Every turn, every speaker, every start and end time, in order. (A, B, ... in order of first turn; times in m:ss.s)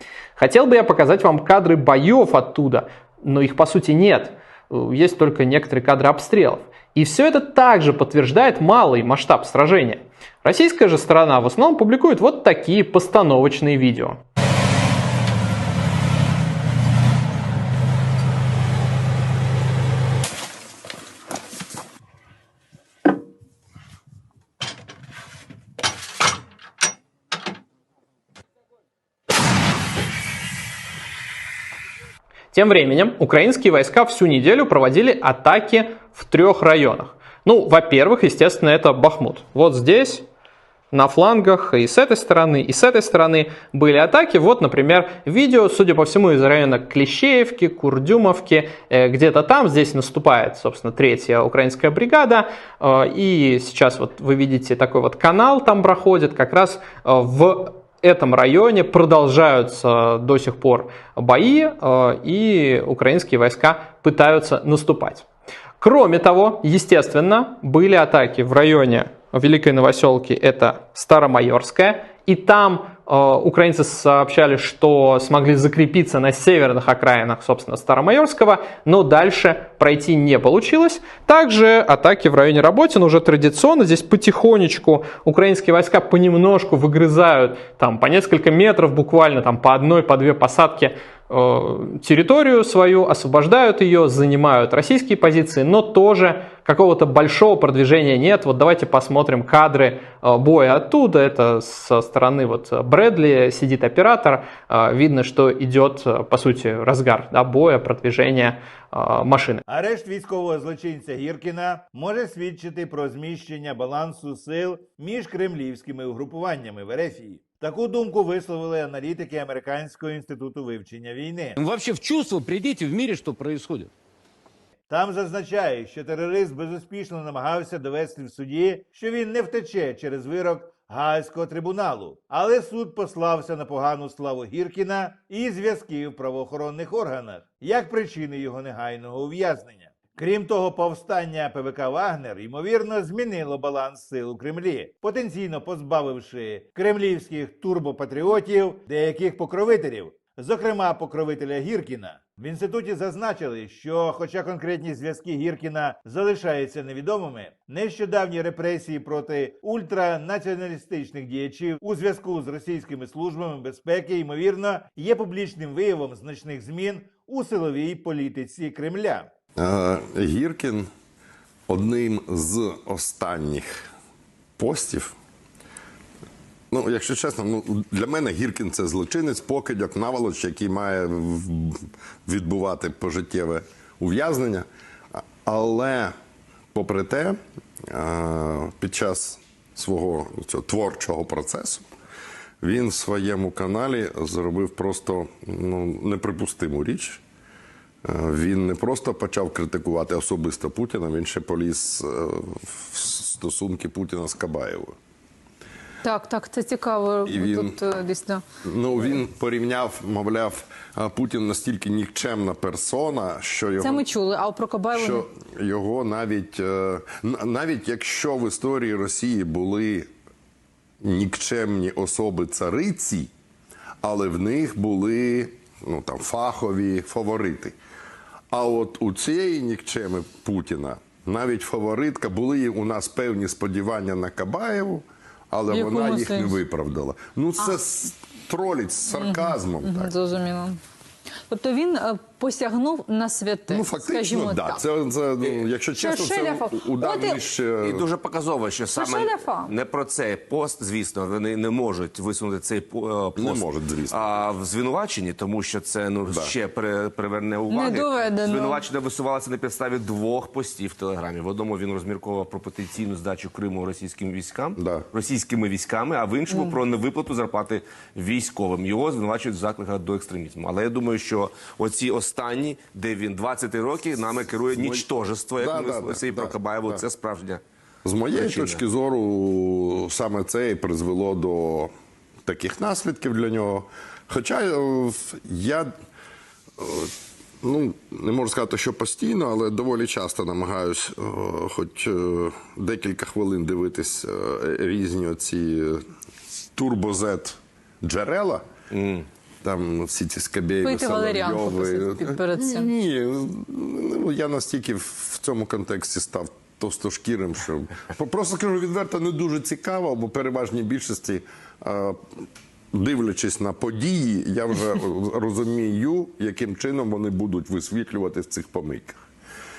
0:00.4-0:14.2 A
0:32.5-0:40.3 A
0:40.9-1:05.2 A
1:05.8-1:49.6 A
1:49.7-2:01.6 B
2:01.6-2:03.9 C
2:04.9-2:49.3 B
2:49.6-2:50.9 D
2:51.7-2:53.9 D
2:54.6-2:55.2 D
2:56.7-3:04.7 D
3:05.4-3:06.1 D
3:06.7-3:07.4 D
3:07.9-3:11.8 D
3:12.6-3:17.2 D
3:18.0-3:24.9 D
3:26.0-3:28.4 E
3:27.2-3:27.8 D
3:28.6-3:34.0 D
3:33.8-3:35.2 E
3:34.9-3:40.1 D
3:41.0-3:43.3 D
3:44.0-3:47.8 D
3:48.5-4:00.1 D
3:55.7-3:56.6 E
3:59.1-4:00.8 E
4:01.5-4:04.8 E
4:03.7-4:08.1 D
4:06.0-4:07.4 E
4:07.8-4:37.6 F
4:08.9-4:09.7 E
4:13.4-4:14.4 D
4:16.3-4:16.5 D
4:17.7-4:18.8 E
4:24.8-4:25.0 D
4:34.7-4:37.0 D
4:38.0-4:41.9 D
4:38.3-4:38.8 F
4:42.4-4:45.9 D
4:46.8-4:56.0 D
4:56.7-4:58.6 D
4:58.9-4:59.2 F
4:59.6-5:12.2 D
5:00.8-5:02.9 E
5:12.9-5:19.2 D